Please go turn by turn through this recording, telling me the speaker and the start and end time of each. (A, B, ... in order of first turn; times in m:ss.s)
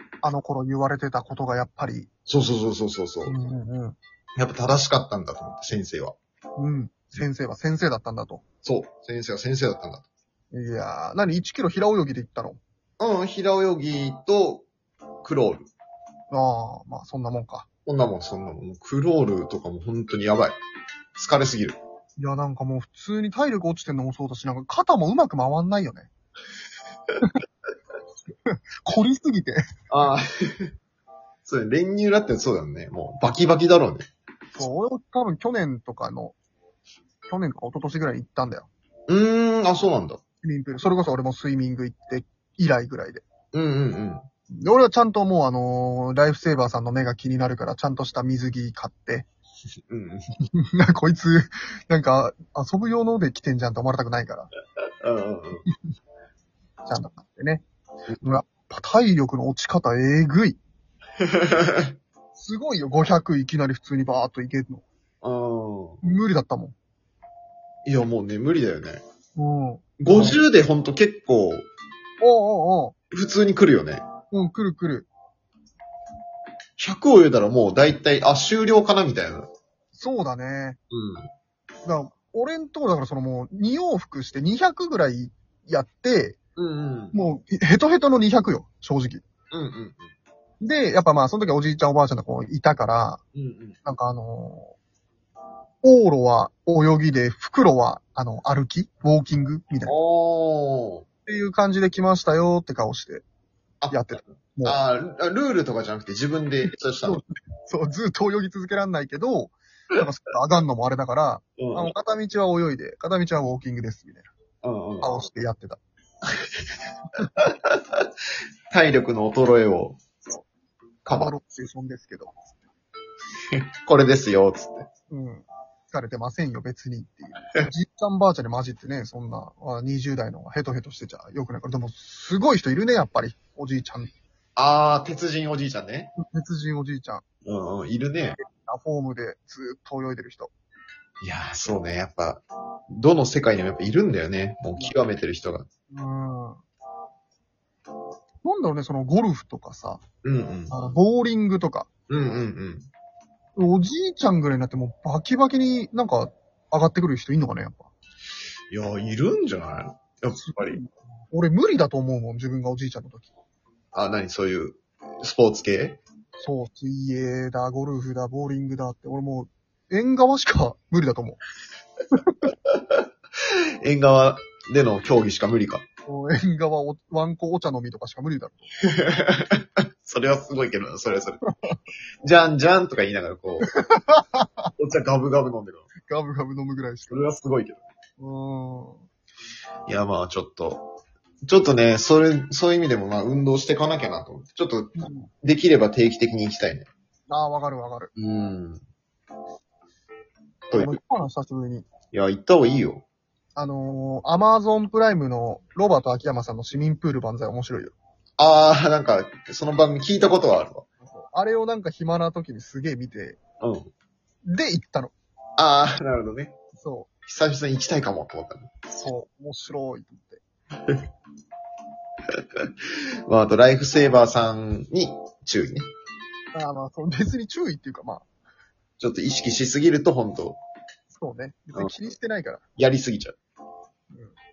0:00.2-0:02.1 A
0:02.3-0:03.4 B
0:03.2-0:04.0 A
0:04.4-0:06.2 B
0:06.6-0:08.4 A
0:08.6-0:10.1 B
0:10.5-0:12.6 A
0:13.0-0:14.7 B
0:15.2-0:15.7 B
0:16.3-0:17.6 A
0:17.8-0:20.6 B
0:21.1-0:21.8 B
0:22.2-0:26.1 A
0:28.5-0:29.6 A
0:29.9-0:30.3 B
0:31.4-0:34.0 B
0:34.6-0:36.3 A
0:37.3-0:38.7 A
0:39.1-0:40.2 B
0:40.4-0:43.2 A
0:43.5-0:44.2 B
0:44.5-0:49.2 A
0:49.9-0:50.3 B
0:50.5-0:54.5 A
0:55.0-0:55.6 B
0:56.8-0:57.6 A
0:58.2-1:00.6 A
1:01.2-1:01.9 B
1:02.4-1:04.8 A
1:05.2-1:06.0 B
1:06.0-1:06.7 A
1:07.8-1:09.0 B
1:09.4-1:10.4 A
1:10.0-1:11.6 B
1:12.2-1:12.9 A
1:13.1-1:14.0 B
1:14.3-1:15.1 A
1:16.8-1:19.5 B
1:19.9-1:20.8 A
1:20.9-1:21.3 B
1:21.8-1:26.4 A
1:26.6-1:27.2 B
1:27.1-1:29.2 A
1:29.5-1:30.1 B
1:30.6-1:33.2 A
1:33.3-1:33.8 B
1:33.8-1:34.8 A
1:35.8-1:39.9 A
1:39.8-1:41.0 B
1:41.3-1:43.2 A
1:43.9-1:44.8 A
1:44.6-1:47.2 B
1:46.6-1:54.3 A
1:51.6-1:51.9 B
1:54.6-1:55.2 B
1:55.0-1:55.8 A
1:57.2-1:58.1 B
1:58.7-2:00.0 B
2:01.0-2:01.3 B
2:01.1-2:02.4 A
2:03.5-2:04.9 B
2:05.1-2:14.1 A
2:14.6-2:16.1 B
2:16.2-2:17.2 A
2:17.4-2:18.4 B
2:18.4-2:20.5 A
2:21.2-2:25.7 B
2:25.9-2:26.6 A
2:28.4-2:30.0 A
2:30.2-2:30.7 B
2:30.7-2:31.9 A
2:32.1-2:32.9 B
2:33.6-2:37.9 A
2:38.7-2:40.8 B
2:40.4-2:43.3 A
2:43.9-2:46.0 B
2:46.4-2:51.4 A
2:52.5-2:53.0 B
2:53.8-2:55.8 B
2:56.0-2:58.6 A
2:58.8-3:01.4 B
3:01.5-3:01.8 A
3:02.2-3:03.7 B
3:03.6-3:04.6 A
3:04.8-3:05.9 B
3:06.0-3:07.2 A
3:07.1-3:07.8 B
3:08.2-3:09.0 A
3:09.9-3:10.9 B
3:11.4-3:16.9 B
3:15.0-3:15.3 A
3:17.3-3:18.1 A
3:18.2-3:18.8 B
3:20.7-3:21.0 B
3:20.7-3:21.8 A
3:22.1-3:23.0 B
3:23.5-3:27.9 A
3:28.4-3:30.8 B
3:31.0-3:33.4 A
3:33.6-3:33.9 B
3:34.4-3:35.1 A
3:35.6-3:36.6 B
3:36.8-3:37.1 A
3:37.2-3:38.7 B
3:38.9-3:40.4 A
3:43.3-3:45.8 B
3:46.5-3:48.2 A
3:49.0-3:50.6 B
3:51.1-3:52.6 A
3:52.8-3:53.4 B